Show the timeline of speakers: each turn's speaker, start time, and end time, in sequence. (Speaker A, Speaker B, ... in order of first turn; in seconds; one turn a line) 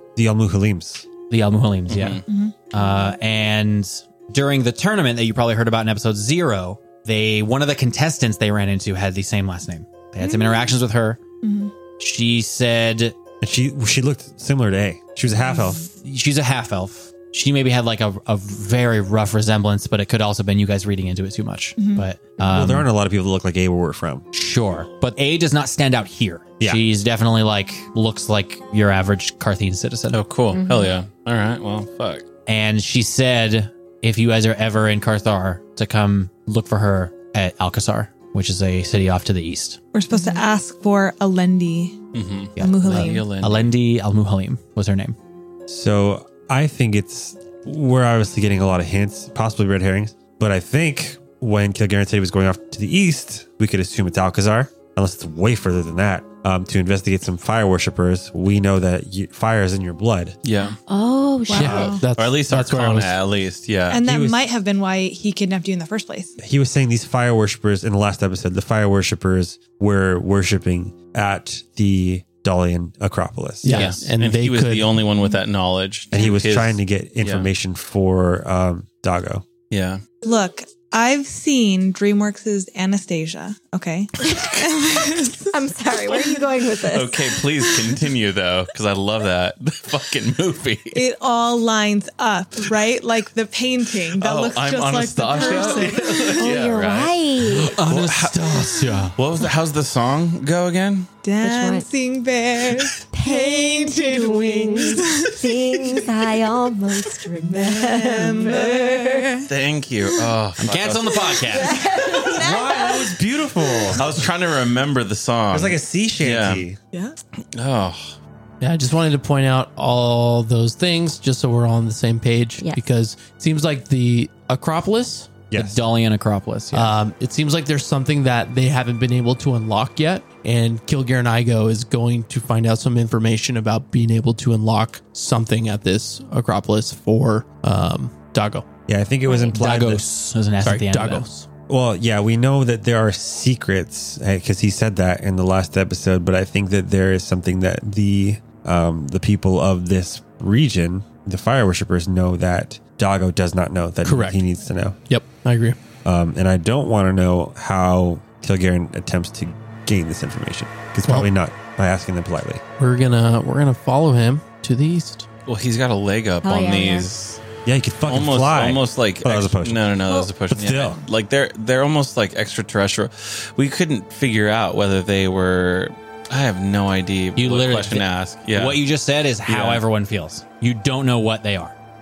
Speaker A: 0.2-1.1
Speaker B: 1.3-11.2
Speaker C: 1.9-2.2
Speaker D: 2.3-2.6
Speaker D: 10.2-10.7
Speaker D: 11.4-11.7
Speaker B: 12.0-13.2
Speaker A: 13.4-15.9
Speaker D: 15.4-15.8
Speaker B: 15.9-22.9
Speaker D: 21.8-22.1
Speaker A: 22.4-24.2
Speaker B: 24.3-30.2
Speaker C: 30.1-32.3
Speaker E: 30.5-30.9
Speaker B: 32.5-39.8
Speaker D: 39.9-42.0
Speaker E: 40.1-40.5
Speaker C: 42.1-43.7
Speaker D: 42.6-43.3
Speaker B: 42.6-45.2
Speaker A: 45.7-60.4
Speaker C: 60.4-60.8
Speaker E: 60.9-62.0
Speaker D: 61.5-62.0
Speaker F: 61.5-63.2
Speaker C: 62.1-64.0
Speaker D: 63.9-66.3
Speaker A: 64.0-64.4
Speaker A: 66.4-73.8
Speaker F: 73.6-75.0
Speaker C: 73.7-77.5
Speaker A: 76.1-79.5
Speaker C: 79.7-80.0
Speaker D: 80.2-85.5
Speaker E: 85.5-87.8
Speaker C: 86.8-91.0
Speaker D: 90.9-96.4
Speaker C: 94.2-101.1
Speaker F: 95.2-95.8
Speaker E: 96.4-97.8
Speaker B: 97.6-99.2
Speaker D: 101.2-106.1
Speaker E: 101.4-101.9
Speaker E: 103.1-109.3
Speaker D: 107.1-109.5
Speaker C: 109.5-111.7
Speaker B: 110.6-111.8
Speaker E: 111.5-113.0
Speaker D: 111.6-113.2
Speaker A: 112.4-114.1
Speaker C: 113.9-116.7
Speaker A: 115.5-116.8
Speaker C: 117.5-118.2
Speaker F: 118.6-125.4
Speaker A: 125.5-125.8
Speaker B: 125.5-126.9
Speaker F: 126.7-138.7
Speaker A: 138.9-140.0
Speaker B: 139.5-141.3
Speaker F: 140.6-141.5
Speaker A: 141.7-155.0
Speaker F: 154.0-154.4
Speaker F: 155.1-155.8
Speaker A: 156.0-162.6
Speaker F: 162.8-165.3
Speaker C: 165.5-167.4
Speaker E: 166.4-167.1
Speaker A: 167.7-170.0
Speaker C: 168.1-178.8
Speaker A: 170.5-171.0
Speaker B: 177.4-181.8
Speaker C: 179.5-179.8